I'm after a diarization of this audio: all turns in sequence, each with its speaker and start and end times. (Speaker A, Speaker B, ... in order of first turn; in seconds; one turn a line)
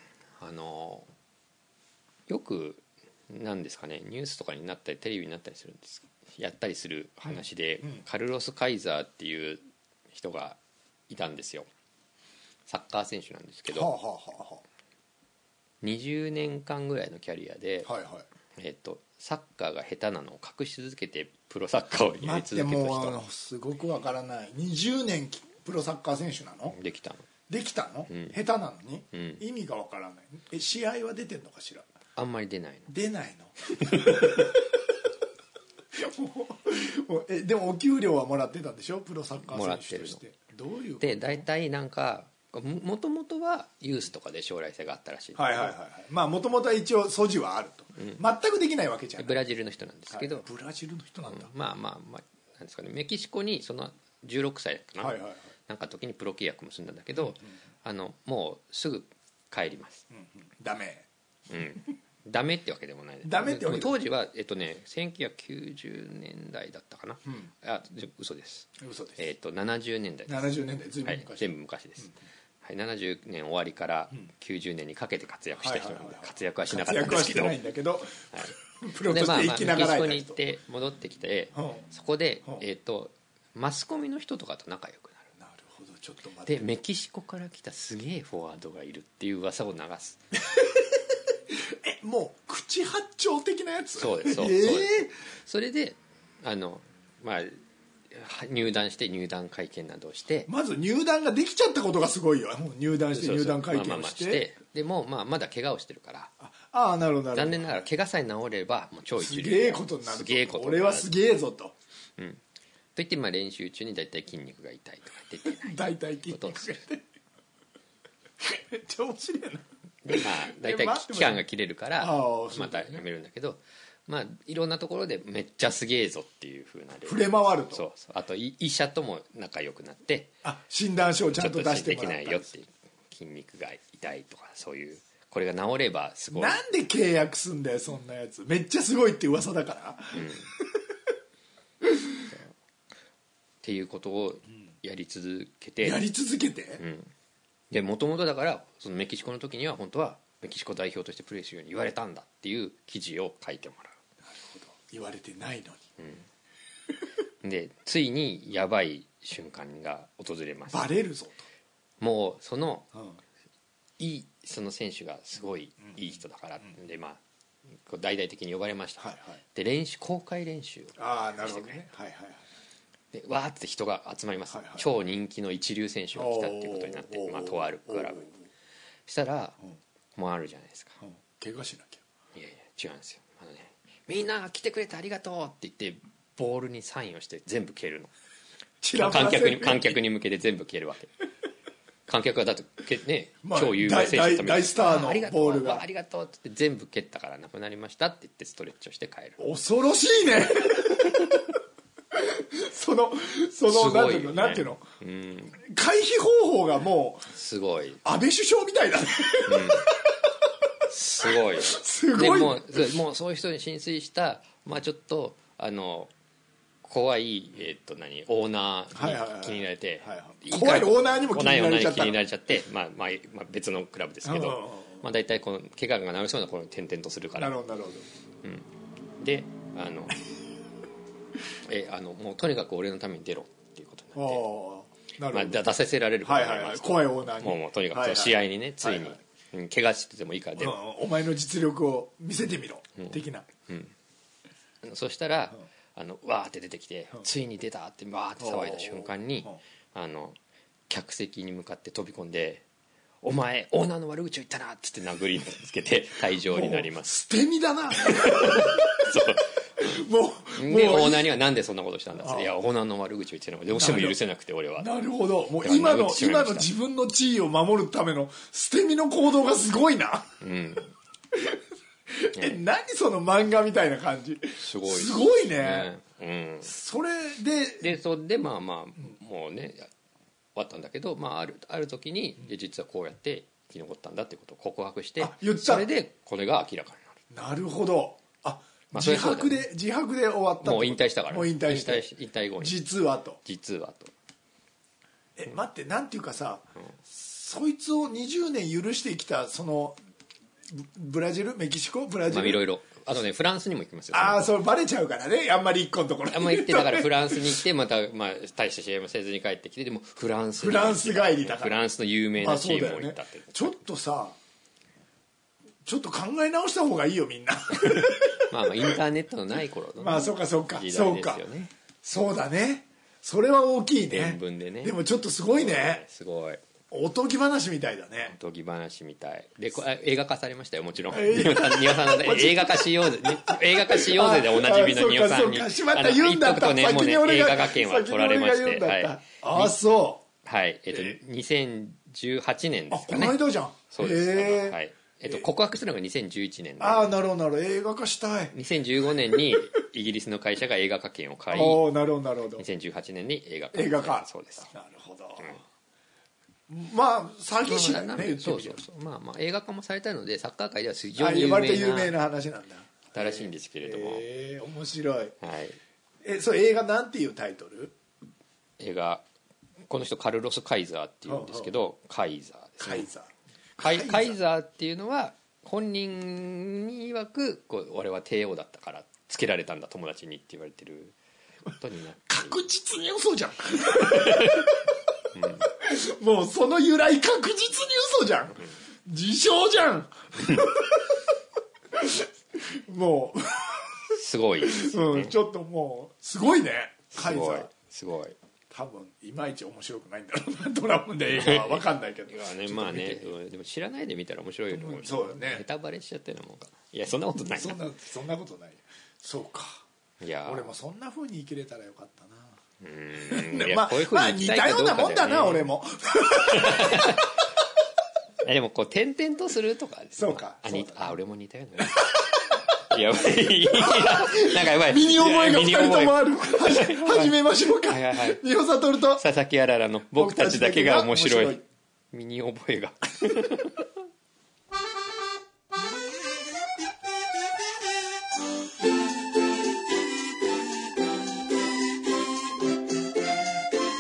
Speaker A: 0.4-1.1
Speaker A: 2.3-9.6
Speaker B: 7.3-8.0
Speaker A: 10.1-11.7
Speaker A: 12.7-13.9
Speaker B: 13.7-14.6
Speaker A: 15.8-17.9
Speaker B: 17.8-18.2
Speaker A: 18.6-23.2
Speaker B: 22.2-26.7
Speaker A: 26.7-27.3
Speaker B: 27.5-31.9
Speaker A: 28.1-28.3
Speaker A: 29.1-29.4
Speaker A: 32.1-32.9
Speaker B: 32.9-34.8
Speaker A: 33.8-34.5
Speaker B: 35.9-41.5
Speaker A: 39.5-40.2
Speaker A: 41.0-45.7
Speaker B: 45.4-49.4
Speaker A: 48.0-48.2
Speaker A: 49.2-50.5
Speaker B: 50.1-51.5
Speaker A: 51.3-60.0
Speaker B: 55.0-55.4
Speaker B: 60.1-61.1
Speaker A: 61.5-70.5
Speaker B: 63.2-64.0
Speaker B: 68.8-69.2
Speaker B: 70.3-71.5
Speaker A: 71.0-77.6
Speaker B: 75.6-80.4
Speaker A: 78.3-85.3
Speaker B: 81.5-81.8
Speaker B: 85.4-86.6
Speaker A: 86.5-90.2
Speaker B: 90.5-91.0
Speaker B: 91.5-95.1
Speaker A: 94.0-97.6
Speaker A: 98.1-100.5
Speaker B: 100.5-104.5
Speaker A: 103.1-106.3
Speaker B: 106.4-107.8
Speaker A: 107.3-111.1
Speaker B: 109.2-111.7
Speaker A: 113.0-116.8
Speaker B: 115.4-117.0
Speaker B: 118.4-121.4
Speaker A: 120.0-130.3
Speaker B: 122.0-123.0
Speaker B: 127.0-127.8
Speaker B: 130.4-132.5
Speaker A: 131.3-136.6
Speaker B: 136.3-140.8
Speaker A: 140.1-140.5
Speaker B: 141.8-142.2
Speaker A: 143.6-146.0
Speaker B: 145.8-146.8
Speaker A: 146.8-147.1
Speaker A: 147.7-153.9
Speaker B: 154.2-155.9
Speaker A: 156.0-156.2
Speaker A: 157.4-160.9
Speaker B: 160.7-161.4
Speaker A: 162.0-162.9
Speaker A: 164.0-167.2
Speaker A: 167.8-171.8
Speaker B: 169.0-169.4
Speaker B: 171.0-172.4
Speaker A: 173.1-178.3
Speaker B: 174.5-174.9
Speaker B: 176.1-178.3
Speaker A: 179.1-179.6
Speaker A: 180.1-181.0
Speaker B: 181.0-182.0
Speaker A: 182.3-188.1
Speaker B: 188.8-190.0
Speaker A: 188.9-191.1
Speaker A: 192.1-199.4
Speaker B: 193.4-195.8
Speaker B: 199.4-201.6
Speaker B: 202.1-204.8
Speaker A: 203.7-205.6
Speaker B: 205.6-207.3
Speaker A: 207.3-208.0
Speaker B: 208.0-210.7
Speaker A: 209.4-209.9
Speaker A: 210.9-216.1
Speaker B: 211.2-212.9
Speaker A: 216.8-227.6
Speaker B: 218.9-222.2
Speaker B: 224.2-225.0
Speaker B: 227.4-228.1
Speaker A: 229.2-230.2
Speaker A: 231.7-234.4
Speaker B: 234.2-235.7
Speaker A: 235.3-240.8
Speaker B: 236.2-239.2
Speaker B: 240.6-243.5
Speaker A: 243.0-243.9
Speaker A: 244.8-250.4
Speaker B: 248.4-249.6
Speaker A: 250.9-252.6
Speaker A: 253.2-257.1
Speaker B: 256.5-261.3
Speaker A: 258.0-260.0
Speaker A: 260.5-264.9
Speaker B: 262.2-262.5
Speaker B: 263.7-264.2
Speaker B: 264.8-270.4
Speaker A: 265.6-266.7
Speaker A: 270.4-270.9
Speaker B: 271.3-275.9
Speaker A: 272.4-272.6
Speaker A: 274.6-276.7
Speaker B: 276.6-277.9
Speaker A: 277.8-279.9
Speaker A: 280.5-287.2
Speaker B: 285.2-285.9
Speaker B: 287.3-292.1
Speaker A: 288.9-289.6
Speaker A: 290.6-292.8
Speaker B: 292.6-293.4
Speaker A: 293.4-294.1
Speaker B: 295.4-300.0
Speaker B: 300.7-302.6
Speaker A: 302.3-304.5
Speaker B: 304.1-307.6
Speaker A: 306.3-313.8
Speaker B: 310.6-311.8
Speaker B: 312.4-314.4
Speaker B: 315.8-319.0
Speaker A: 317.8-321.7
Speaker B: 320.0-321.4
Speaker B: 322.0-326.0
Speaker A: 324.1-325.0
Speaker A: 325.5-326.6
Speaker B: 326.9-328.3
Speaker A: 328.2-339.8
Speaker B: 331.1-340.2
Speaker A: 340.4-347.1
Speaker B: 340.9-341.2
Speaker B: 342.9-345.4
Speaker B: 346.8-348.5
Speaker A: 348.5-351.8
Speaker B: 349.3-349.6
Speaker B: 351.5-352.6
Speaker A: 352.6-354.7
Speaker B: 353.7-355.5
Speaker B: 356.7-358.8
Speaker A: 357.6-362.1
Speaker B: 361.2-365.4
Speaker A: 363.1-364.3
Speaker A: 365.4-365.8
Speaker B: 366.2-367.9
Speaker A: 368.8-369.2
Speaker A: 369.9-373.1
Speaker B: 371.3-371.8
Speaker B: 372.8-374.4
Speaker A: 373.8-381.1
Speaker A: 381.7-382.6
Speaker B: 382.3-384.8
Speaker A: 384.0-384.7
Speaker A: 385.3-385.7
Speaker B: 385.6-391.2
Speaker B: 391.9-393.9
Speaker A: 394.1-395.4
Speaker B: 394.6-397.7
Speaker A: 397.1-398.4
Speaker B: 398.7-403.3
Speaker A: 401.3-407.8
Speaker B: 404.7-405.6
Speaker B: 407.5-409.8
Speaker A: 410.2-410.7
Speaker B: 410.4-412.6
Speaker A: 412.8-415.7
Speaker B: 413.3-417.3
Speaker A: 416.3-417.4
Speaker A: 418.4-422.2
Speaker B: 420.1-421.2
Speaker B: 421.8-422.2
Speaker A: 422.7-428.4
Speaker B: 423.7-429.2
Speaker A: 429.1-431.6
Speaker B: 430.1-431.6
Speaker A: 432.1-433.9